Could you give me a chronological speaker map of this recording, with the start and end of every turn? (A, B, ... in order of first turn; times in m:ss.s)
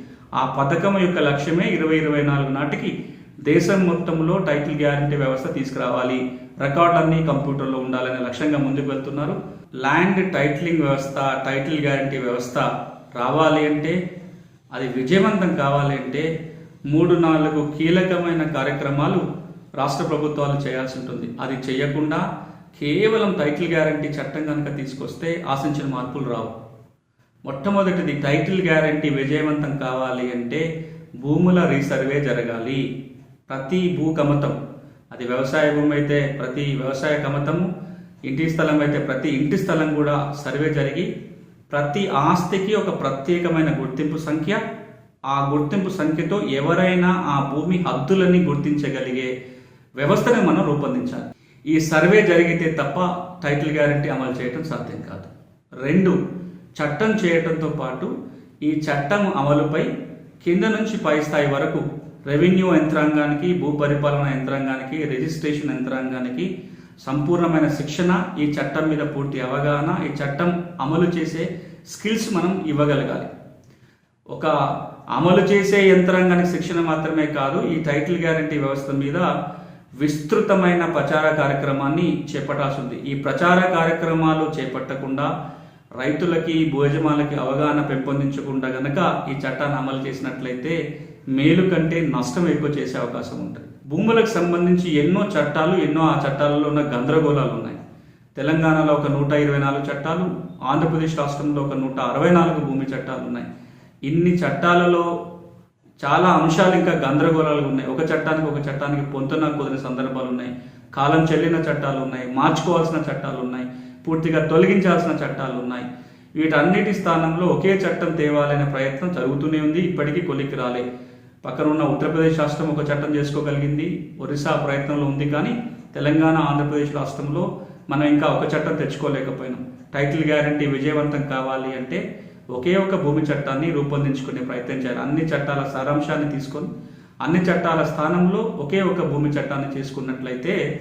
0:00.4-0:02.9 A
0:03.4-0:14.0 A
0:14.7-0:16.3 A
0:16.9-0:19.2 A
0:19.8-0:26.5 A
0:27.4-0:30.6 A
0:31.2-0:32.8 A
0:33.5-0:34.6 A
0:35.1-0:37.7 A
0:38.2-0:41.1 A
0:41.7-0:44.6 A
0:45.3-0:49.3 A
0:50.0-0:55.3 A
0:55.8-0:56.2 A
0:56.8-0:58.1 A
0:58.6-0:59.9 A
1:00.4-1:06.5 A
1:07.0-1:13.3 A
1:15.1-1:19.3 A
1:20.0-1:25.3 A
1:26.0-1:30.8 A
1:31.3-1:37.8 A
1:38.4-1:43.5 A
1:44.1-1:45.1 A
1:46.0-1:55.8 A
1:56.4-2:00.8 A
2:01.4-2:12.0 A
2:12.5-2:16.7 A
2:17.2-2:20.6 A